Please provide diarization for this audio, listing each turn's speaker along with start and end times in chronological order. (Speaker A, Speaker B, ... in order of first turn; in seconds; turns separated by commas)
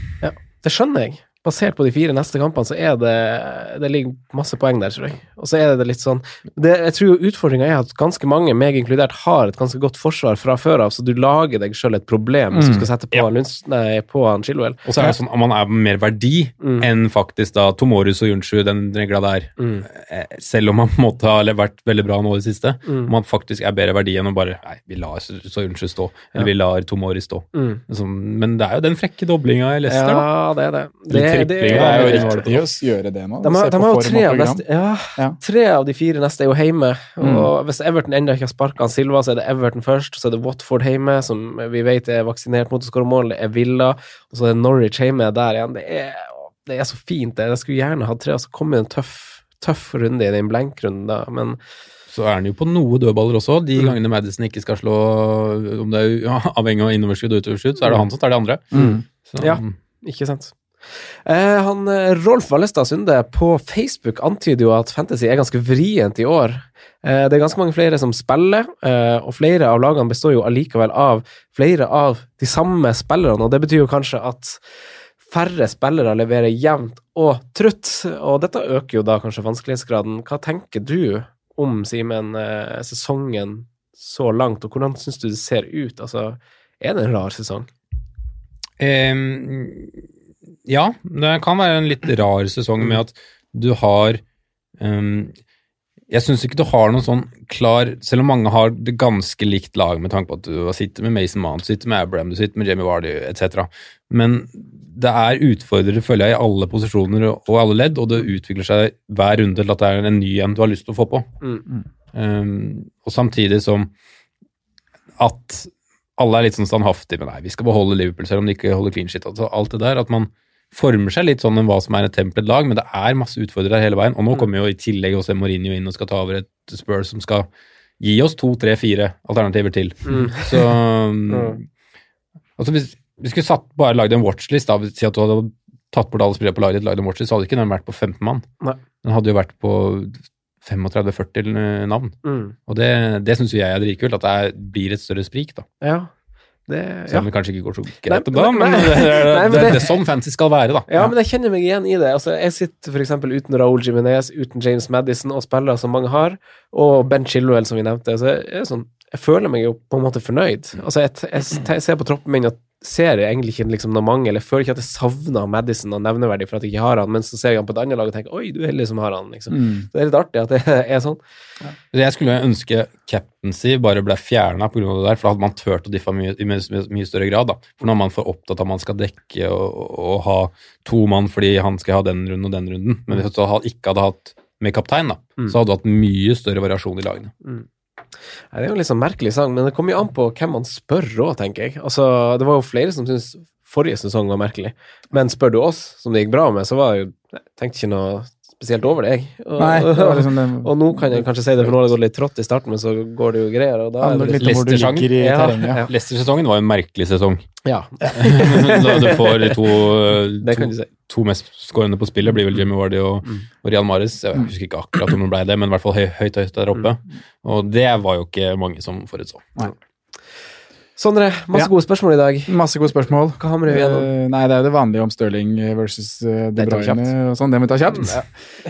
Speaker A: 0.2-14.8, Speaker B: 12.5-12.9, Speaker C: 14.8-30.3, Speaker A: 16.6-16.9, Speaker A: 19.6-19.9, Speaker A: 22.9-23.1, Speaker A: 27.5-27.8, Speaker A: 29.9-32.6, Speaker C: 31.1-32.5, Speaker B: 31.7-34.6, Speaker A: 33.4-51.6, Speaker B: 37.2-37.5, Speaker C: 52.1-58.7, Speaker B: 58.7-59.0, Speaker A: 58.8-74.6, Speaker C: 59.3-59.7, Speaker A: 75.3-87.7, Speaker C: 88.8-90.0, Speaker C: 90.7-94.2, Speaker C: 94.8-95.3, Speaker C: 96.1-111.3, Speaker C: 112.1-113.9, Speaker C: 115.2-127.5, Speaker C: 128.0-131.6, Speaker A: 130.1-130.6, Speaker A: 131.3-131.6, Speaker C: 132.6-138.5, Speaker C: 139.0-145.7, Speaker A: 142.2-142.6, Speaker A: 145.8-146.1, Speaker A: 146.7-147.3, Speaker C: 147.1-150.9, Speaker A: 148.1-149.9, Speaker A: 150.9-171.2, Speaker B: 169.5-169.9, Speaker C: 171.9-187.3, Speaker A: 188.5-204.5, Speaker B: 199.6-201.3, Speaker B: 204.0-205.8, Speaker C: 204.4-205.2, Speaker A: 205.2-205.9, Speaker C: 205.9-207.6, Speaker A: 207.7-209.6, Speaker C: 208.1-219.5, Speaker A: 210.4-210.9, Speaker A: 221.0-222.6, Speaker B: 222.5-228.3, Speaker A: 223.4-224.1, Speaker A: 226.6-227.1